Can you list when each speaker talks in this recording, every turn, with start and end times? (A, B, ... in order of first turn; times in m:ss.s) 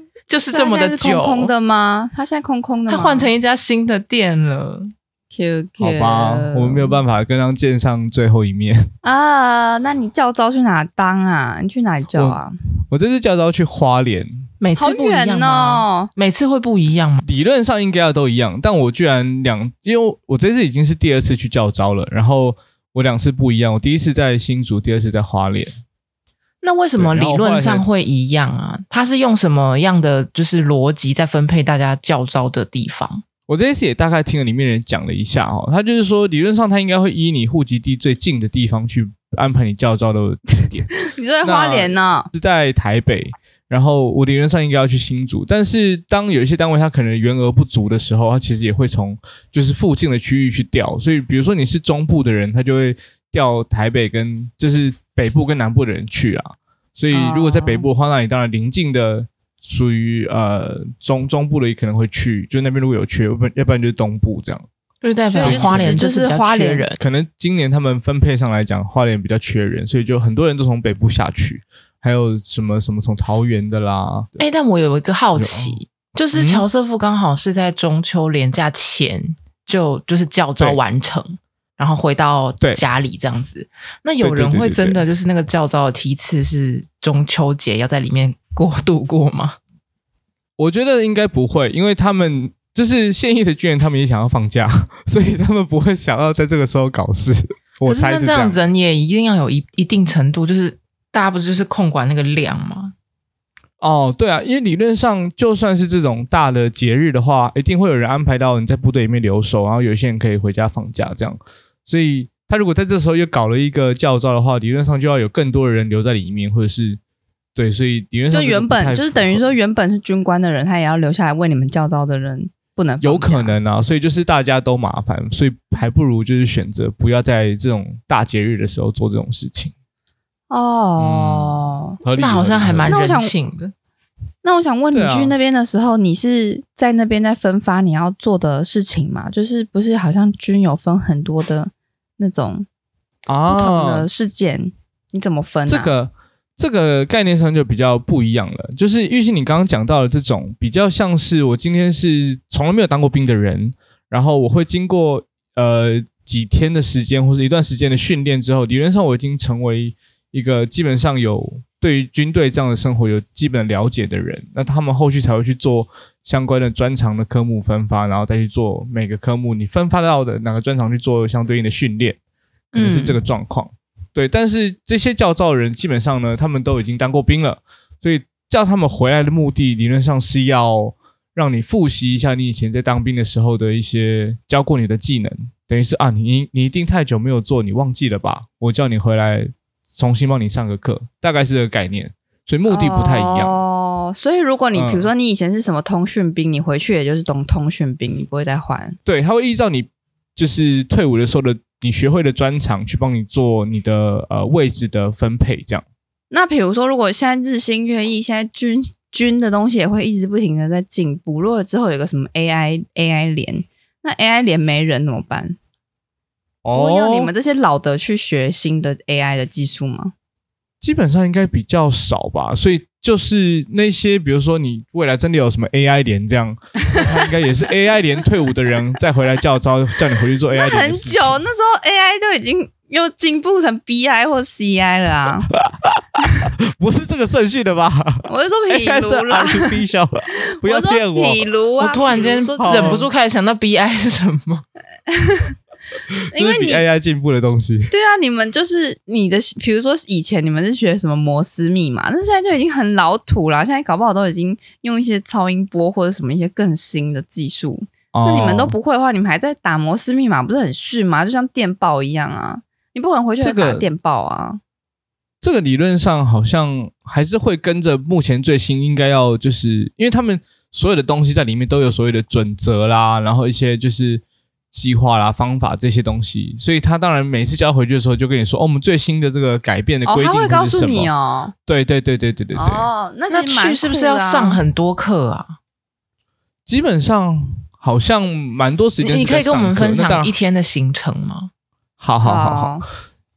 0:00.3-0:01.5 A
0:00.5-0:03.3 B
0:02.9-0:04.9 A
0:05.3-0:07.0 B
0:05.8-0:08.9 C
0:09.0-0:12.5 B
0:12.1-0:12.4 C
0:12.9-0:14.4 C
0:14.6-0:17.2 A
0:14.8-0:16.1 B
0:17.2-0:25.7 C
0:26.6-0:33.2 A
0:27.0-0:27.8 C
0:33.5-1:04.7 C
0:40.9-0:42.3 B
0:57.1-0:57.9 B
1:05.0-1:07.0 A
1:05.3-1:06.8 B
1:05.4-1:05.9 C
1:07.0-1:14.4 C
1:14.4-1:29.6 A
1:15.4-1:15.8 C
1:16.3-1:16.6 C
1:24.2-1:25.0 C
1:30.6-1:38.6 C
1:37.8-1:42.9 A
1:43.8-1:57.0 C
1:57.5-1:59.5 C
1:58.3-2:03.6 B
2:03.0-2:09.7 C
2:10.5-2:12.0 B
2:11.0-2:13.0 C
2:12.2-2:13.7 A
2:12.9-2:13.3 B
2:14.4-2:22.7 B
2:14.9-2:15.3 C
2:23.3-2:24.1 C
2:23.5-2:25.9 B
2:25.7-2:52.2 C
2:52.7-3:13.6 C
2:52.7-2:53.2 B
3:12.7-3:19.0 B
3:14.7-3:15.1 C
3:19.0-3:25.8 C
3:26.3-3:35.6 B
3:36.6-3:37.3 C
3:36.7-3:40.1 B
3:40.8-3:51.4 C
3:50.5-3:55.5 B
3:55.6-3:56.0 C
3:56.7-4:01.5 C
3:58.2-3:59.8 B
4:00.5-4:03.0 B
4:01.8-4:04.6 A
4:02.1-4:03.1 C
4:05.1-4:05.5 B
4:06.1-4:07.9 C
4:06.3-4:06.8 B
4:07.9-4:24.6 B
4:18.1-4:18.7 C
4:23.4-4:23.9 C
4:25.4-4:41.1 C
4:40.0-4:41.5 B
4:41.7-4:42.9 C
4:42.5-4:44.6 B
4:43.3-4:45.6 A
4:46.7-4:50.3 C
4:49.0-4:51.5 A
4:52.0-4:52.8 C
4:52.2-4:52.8 B